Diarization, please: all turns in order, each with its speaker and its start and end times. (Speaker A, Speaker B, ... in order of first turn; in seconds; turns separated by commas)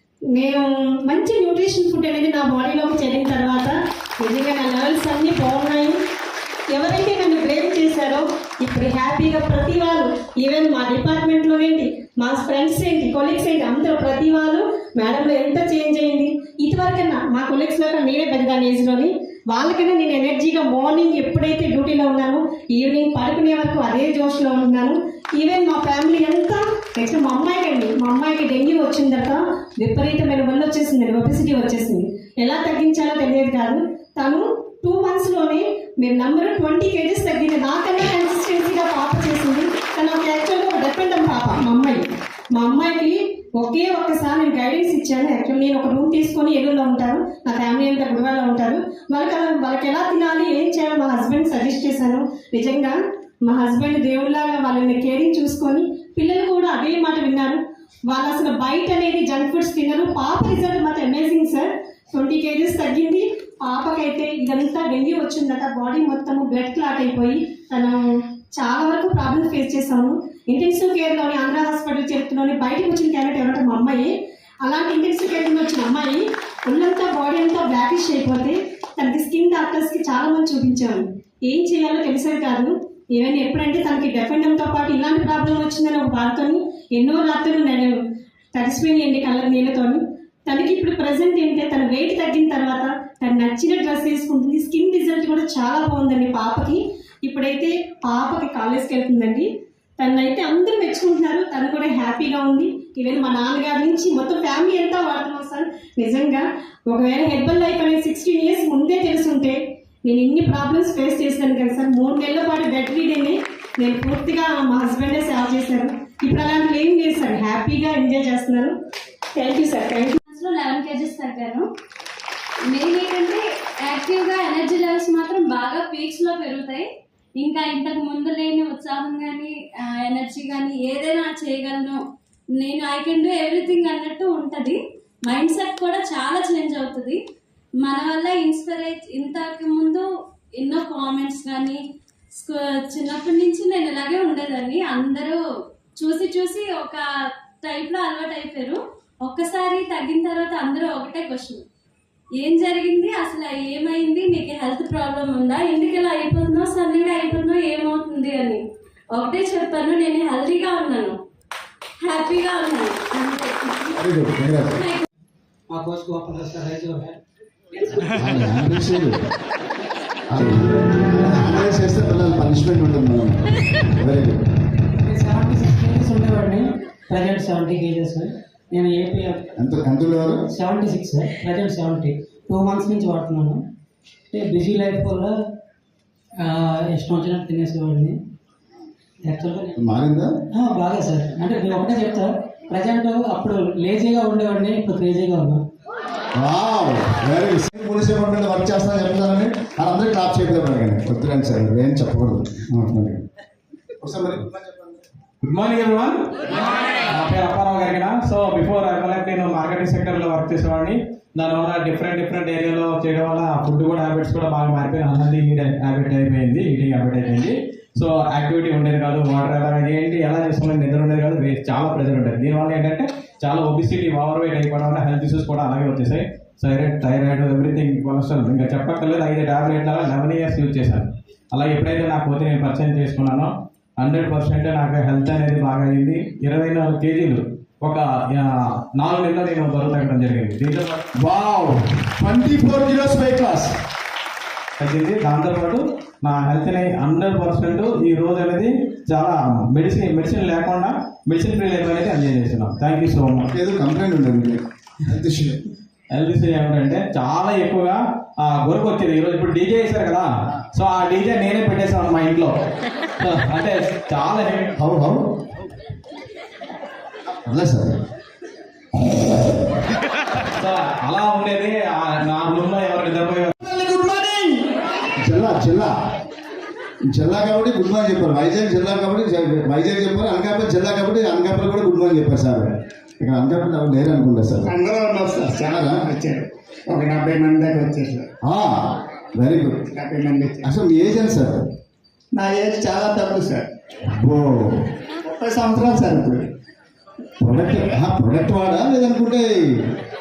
Speaker A: 0.3-6.0, Speaker A: 6.7-68.0, Speaker A: 68.5-74.1, Speaker A: 74.6-88.0, Speaker A: 88.5-99.5, Speaker A: 100.0-118.7, Speaker A: 119.3-120.2, Speaker B: 120.3-121.6, Speaker B: 122.7-126.8, Speaker B: 127.4-132.0, Speaker B: 132.6-137.2, Speaker B: 137.8-140.0, Speaker B: 140.6-141.8, Speaker B: 142.4-145.4, Speaker B: 146.0-147.0, Speaker B: 147.6-151.6, Speaker B: 152.4-158.6, Speaker B: 159.1-161.1, Speaker B: 162.0-163.9, Speaker C: 163.9-164.8, Speaker B: 164.8-165.0, Speaker D: 165.7-167.2, Speaker C: 168.1-169.2, Speaker C: 170.3-173.4, Speaker C: 174.0-174.4, Speaker D: 175.0-179.4, Speaker C: 179.6-180.3, Speaker D: 180.5-183.6, Speaker D: 184.3-185.3, Speaker D: 186.9-188.1, Speaker D: 189.3-189.7, Speaker C: 189.8-190.3, Speaker D: 190.6-195.6, Speaker C: 196.4-203.2, Speaker C: 204.0-204.9, Speaker E: 205.4-206.2, Speaker E: 207.1-241.1, Speaker C: 241.2-243.7, Speaker E: 244.8-253.5, Speaker C: 253.4-255.6, Speaker E: 256.1-262.5, Speaker E: 263.2-264.7, Speaker C: 264.8-265.2, Speaker C: 267.4-267.9, Speaker E: 270.6-273.5, Speaker F: 274.2-274.5, Speaker C: 275.2-275.9, Speaker C: 277.1-284.7, Speaker F: 284.6-288.3, Speaker C: 285.6-286.0, Speaker C: 288.4-288.8, Speaker C: 289.3-289.8, Speaker F: 289.9-290.7, Speaker C: 290.6-291.6, Speaker F: 292.4-293.6, Speaker C: 294.1-294.7, Speaker F: 295.2-296.4, Speaker C: 297.4-299.5